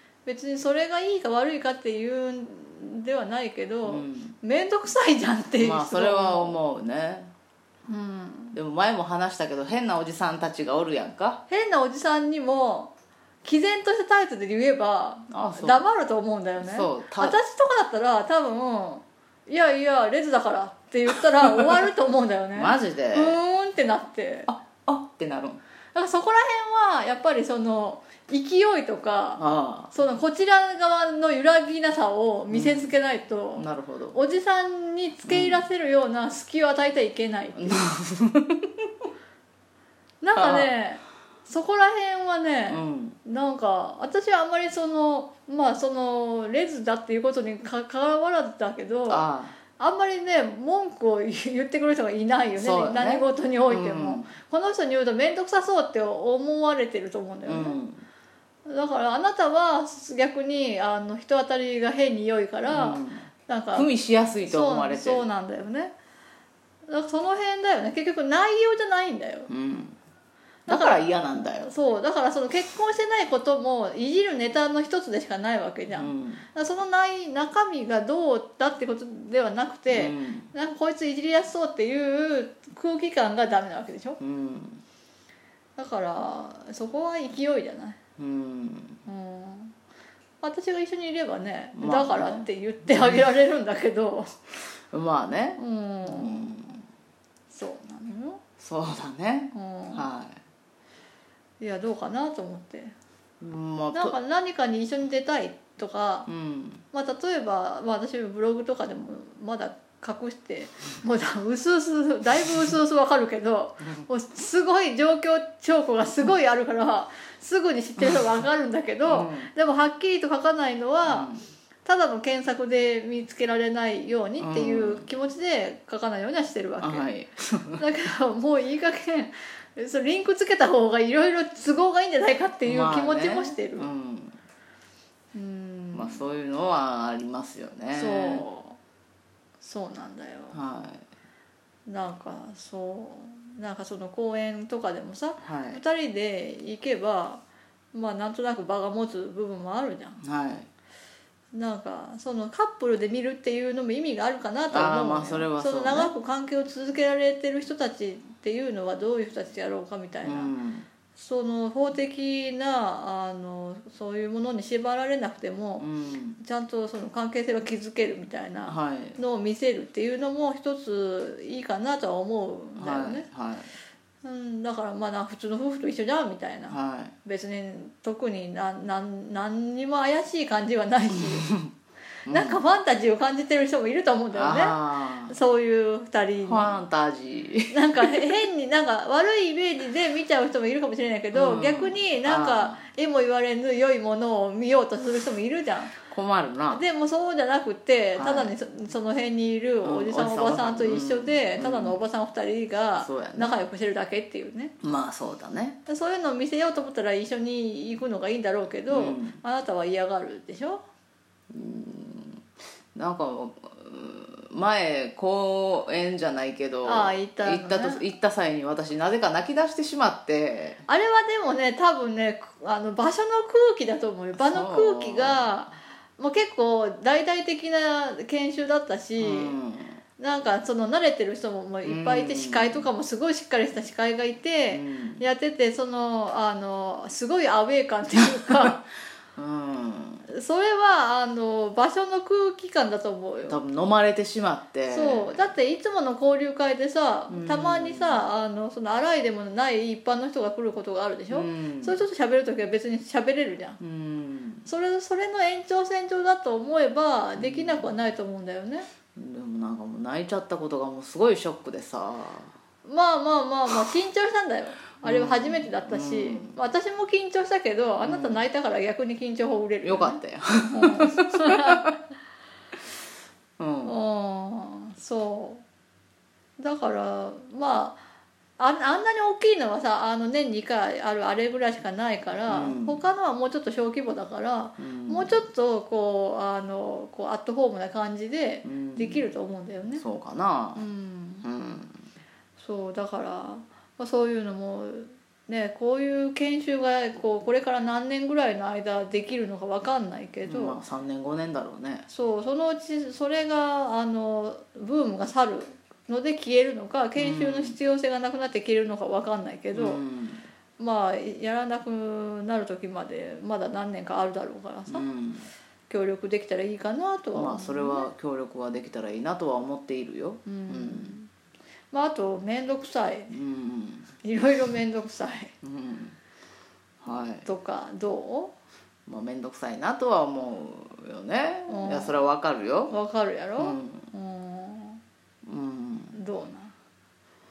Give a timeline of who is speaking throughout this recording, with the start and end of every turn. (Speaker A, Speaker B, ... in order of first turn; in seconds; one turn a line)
Speaker A: 0.2-6.6
Speaker B: 3.8-4.3
Speaker B: 5.6-7.3
Speaker A: 7.9-8.6
Speaker B: 8.5-11.4
Speaker A: 11.5-12.9
Speaker A: 13.4-24.5
Speaker B: 15.3-15.8
Speaker B: 16.6-17.4
Speaker B: 22.5-23.4
Speaker B: 24.5-25.6
Speaker A: 25.9-29.4
Speaker B: 29.4-29.9
Speaker A: 29.9-37.8
Speaker B: 32.5-32.9
Speaker B: 33.6-34.2
Speaker B: 35.3-35.6
Speaker B: 37.6-38.7
Speaker A: 40.2-57.8
Speaker B: 40.4-40.7
Speaker B: 42.7-43.2
Speaker B: 49.1-49.6
Speaker B: 52.5-54.3
Speaker B: 57.5-58.0
Speaker A: 58.6-63.9
Speaker B: 62.7-65.3
Speaker A: 64.4-65.9
Speaker A: 66.9-69.5
Speaker B: 69.5-70.0
Speaker B: 70.7-71.7
Speaker A: 70.7-84.2
Speaker B: 75.9-76.4
Speaker B: 79.9-80.5
Speaker B: 84.2-84.8
Speaker A: 85.8-88.0
Speaker B: 88.2-89.0
Speaker A: 89.0-89.7
Speaker A: 90.4-94.3
Speaker B: 91.8-92.5
Speaker B: 94.9-96.8
Speaker A: 95.6-96.8
Speaker A: 97.5-98.4
Speaker B: 98.6-100.4
Speaker A: 99.5-100.1
Speaker A: 101.6-102.9
Speaker B: 103.4-104.2
Speaker A: 103.9-106.3
Speaker B: 106.3-106.8
Speaker A: 106.9-121.3
Speaker B: 119.0-119.5
Speaker B: 121.0-121.4
Speaker A: 121.8-127.1
Speaker B: 124.4-125.1
Speaker B: 126.8-127.8
Speaker A: 127.8-133.9
Speaker B: 132.6-134.4
Speaker A: 135.3-136.2
Speaker B: 135.9-138.4
Speaker A: 137.9-138.8
Speaker A: 139.6-140.6
Speaker B: 140.5-141.0
Speaker A: 141.8-150.2
Speaker B: 145.4-145.8
Speaker B: 150.2-150.7
Speaker A: 151.5-160.5
Speaker B: 154.7-156.1
Speaker B: 160.2-160.9
Speaker A: 161.1-173.2
Speaker B: 165.8-166.4
Speaker B: 168.7-169.2
Speaker B: 172.8-173.7
Speaker A: 174.2-181.5
Speaker B: 176.7-177.1
Speaker B: 181.4-181.7
Speaker A: 182.2-186.8
Speaker B: 182.3-182.6
Speaker B: 184.3-185.4
Speaker B: 186.4-188.4
Speaker A: 187.7-196.0
Speaker B: 191.3-192.8
Speaker B: 196.0-196.8
Speaker A: 196.7-204.7
Speaker B: 198.2-198.5
Speaker B: 199.8-202.0
Speaker B: 203.0-203.5
Speaker B: 204.8-205.8
Speaker A: 205.8-210.8
Speaker B: 208.9-209.4
Speaker B: 211.5-212.4
Speaker B: 212.9-220.8
Speaker A: 216.8-218.0
Speaker A: 220.9-229.5
Speaker B: 224.3-225.5
Speaker B: 229.2-230.0
Speaker A: 230.2-238.8
Speaker B: 231.8-232.9
Speaker B: 234.7-235.2
Speaker B: 239.3-240.2
Speaker A: 240.3-243.6
Speaker B: 243.5-245.5
Speaker A: 244.9-253.8
Speaker B: 247.3-248.3
Speaker B: 251.3-252.0
Speaker B: 253.8-254.6
Speaker A: 254.6-258.9
Speaker B: 257.4-257.9
Speaker B: 259.1-262.5
Speaker A: 262.8-272.1
Speaker B: 265.0-266.5
Speaker B: 268.0-268.4
Speaker B: 269.8-271.9
Speaker B: 273.6-274.0
Speaker A: 273.8-275.6
Speaker A: 276.6-278.0
Speaker A: 278.6-290.0
Speaker B: 282.5-283.0
Speaker B: 284.8-285.4
Speaker B: 288.6-289.3
Speaker B: 290.0-290.9
Speaker A: 290.8-291.4
Speaker B: 291.4-292.0
Speaker A: 292.6-300.8
Speaker B: 300.4-302.0
Speaker A: 302.1-310.0
Speaker B: 307.1-307.8
Speaker B: 309.7-310.4
Speaker A: 310.8-315.1
Speaker B: 314.9-315.5
Speaker A: 315.9-318.1
Speaker B: 317.3-321.2
Speaker A: 320.4-321.3
Speaker A: 321.9-323.4
Speaker B: 323.3-324.1
Speaker A: 324.2-325.5
Speaker B: 325.6-326.1
Speaker B: 327.0-327.4
Speaker A: 327.1-328.5
Speaker B: 329.1-332.9
Speaker A: 331.7-332.2
Speaker A: 332.9-335.0
Speaker B: 333.6-334.1
Speaker B: 335.4-336.1
Speaker A: 336.1-336.7